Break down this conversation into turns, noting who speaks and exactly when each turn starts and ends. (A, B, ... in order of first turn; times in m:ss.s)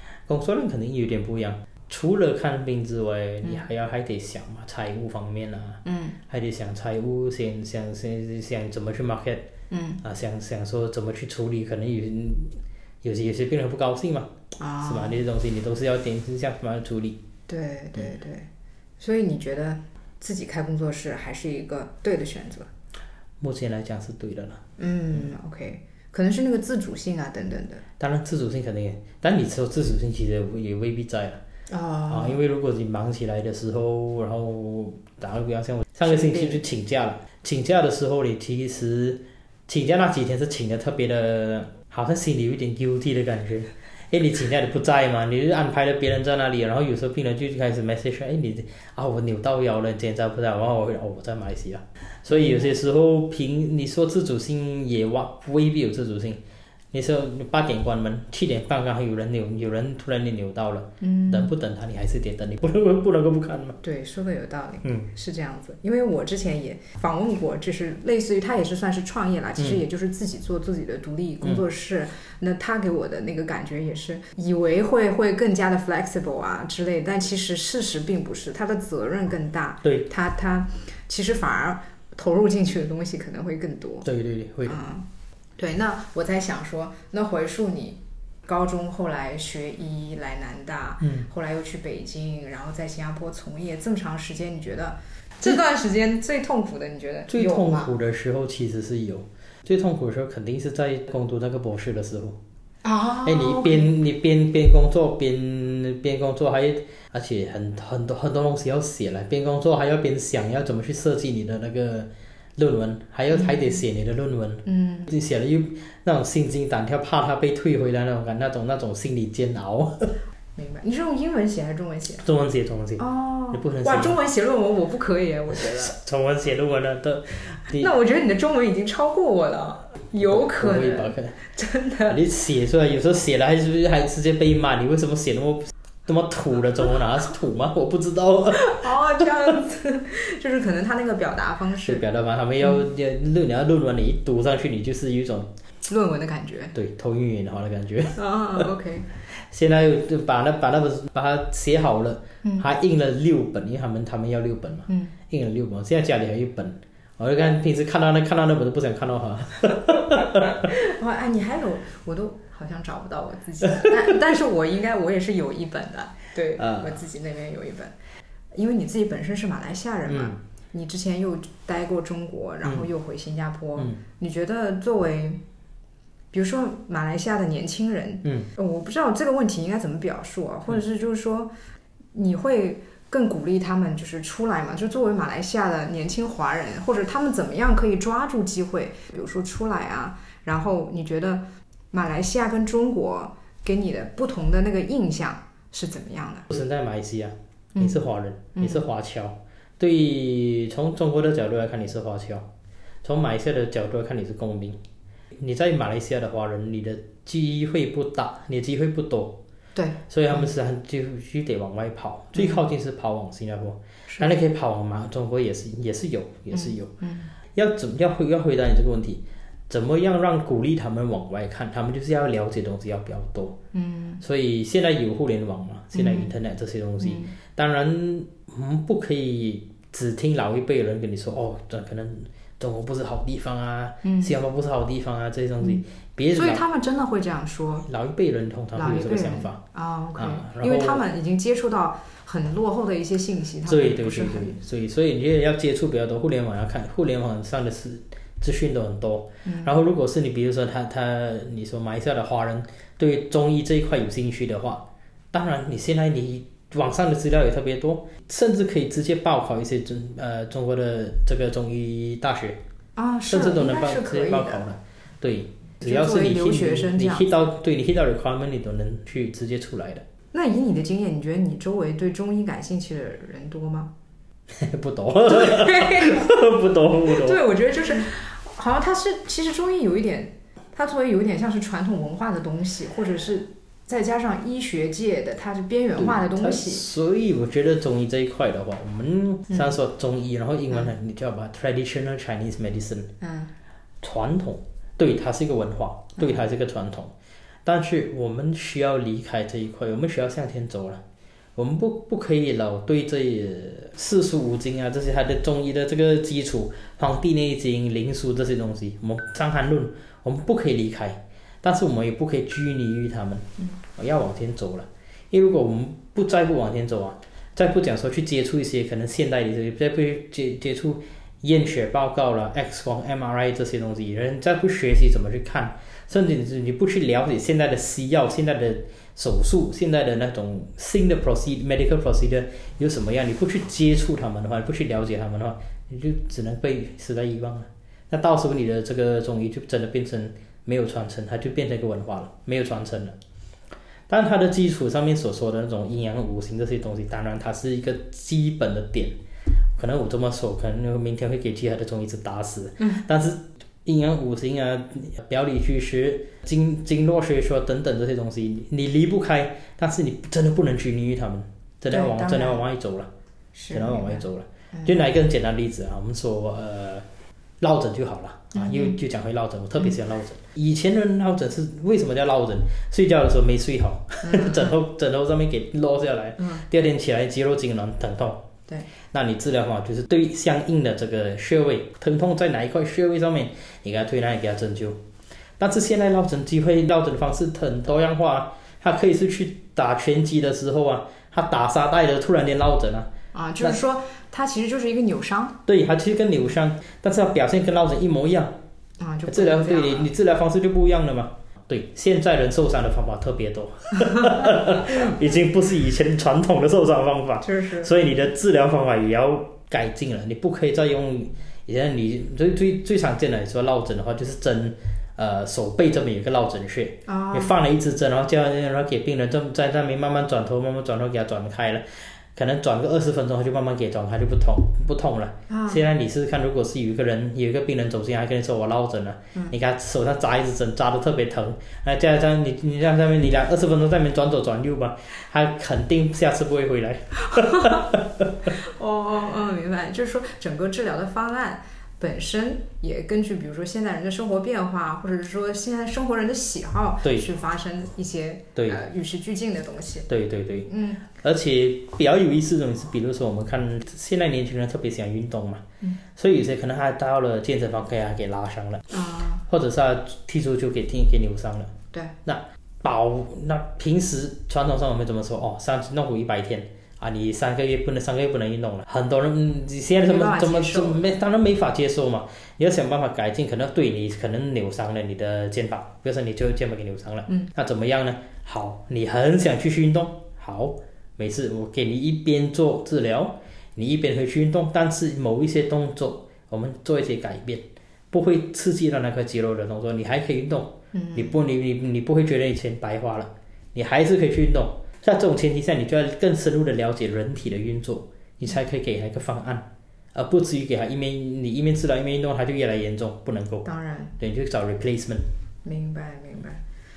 0:00.3-0:09.5 A
0:05.8-0:06.2 B
0:09.7-0:10.0 B
0:10.0-0:17.2 A
0:14.6-0:15.2 B
0:17.5-0:18.5 B
0:19.0-0:22.7 B
0:23.4-0:24.6 A
0:24.8-0:27.8 B
0:28.0-0:31.4 A
0:31.7-0:32.4 B
0:32.1-0:56.4 A
0:36.0-0:36.6 B
0:52.3-0:52.7 B
0:56.9-1:03.8 A
1:01.0-1:01.5 B
1:03.8-1:24.1 B
1:24.0-1:24.8 A
1:24.7-1:25.1 B
1:25.6-1:37.9 B
1:31.0-1:31.3 A
1:37.3-1:42.4 A
1:42.8-1:43.9 B
1:43.2-2:00.1 A
1:53.3-1:53.8 B
1:54.7-1:55.1 B
2:00.6-2:02.3 B
2:02.2-2:04.2 A
2:03.0-2:05.9 B
2:05.6-2:07.9 A
2:07.8-2:12.2 B
2:10.2-2:11.4 A
2:12.1-2:19.5 A
2:18.5-2:22.0 B
2:21.8-2:25.5 A
2:25.8-2:26.8 B
2:26.8-2:28.7 A
2:28.2-2:29.1 B
2:29.3-2:40.7 A
2:34.9-2:35.2 B
2:40.6-2:47.9 B
2:43.6-2:44.0 A
2:46.6-2:47.0 A
2:48.5-2:55.4 B
2:50.1-2:50.4 A
2:56.3-3:01.5 B
3:02.1-3:16.5 B
3:16.5-3:22.5 A
3:17.8-3:18.0 B
3:18.6-3:18.8 B
3:23.0-3:24.8 A
3:25.4-3:29.4 A
3:29.8-3:30.0 B
3:30.1-3:36.9 A
3:32.4-3:32.6 B
3:36.5-3:37.3 B
3:37.6-3:43.6 A
3:43.7-3:44.2 B
3:44.2-3:56.6 A
3:45.9-3:46.3 B
3:47.0-3:47.4 B
3:54.0-3:54.4 B
3:56.3-3:57.9 B
3:57.9-3:59.6 A
3:58.8-4:04.6 B
4:00.2-4:01.0 A
4:03.6-4:22.6 A
4:09.4-4:09.7 B
4:23.0-4:24.7 B
4:23.3-4:30.0 A
4:25.8-4:27.3 B
4:30.3-4:33.9 B
4:34.5-4:37.4 A
4:35.3-4:36.3 B
4:37.1-4:46.8 B
4:46.0-4:53.1 A
4:53.2-4:53.5 B
4:54.0-4:57.1 A
4:57.6-5:01.0 A
5:01.6-5:43.2 A
5:44.1-5:49.2 A
5:49.8-6:03.1 A
6:01.9-6:02.6 B
6:03.6-6:05.0 B
6:03.7-6:07.1 A
6:07.6-6:18.5 A
6:08.5-6:09.0 B
6:14.2-6:14.8 B
6:16.4-6:16.6 B
6:19.1-6:25.0 A
6:25.6-6:33.8 A
6:33.3-6:35.6 B
6:35.7-6:38.6 A
6:39.0-6:40.1 B
6:39.3-7:18.5 A
6:44.0-6:44.4 B
6:47.4-6:47.9 B
6:57.1-6:57.6 B
7:05.5-7:05.8 B
7:17.2-7:17.9 B
7:18.5-7:30.1 B
7:27.0-7:27.3 A
7:30.1-7:35.6 A
7:30.7-7:31.0 B
7:36.2-7:41.7 A
7:38.9-7:39.4 B
7:42.2-8:23.7 A
7:50.0-7:51.1 B
8:10.9-8:11.3 B
8:23.6-8:24.1 B
8:24.2-8:25.2 A
8:25.6-8:26.6 B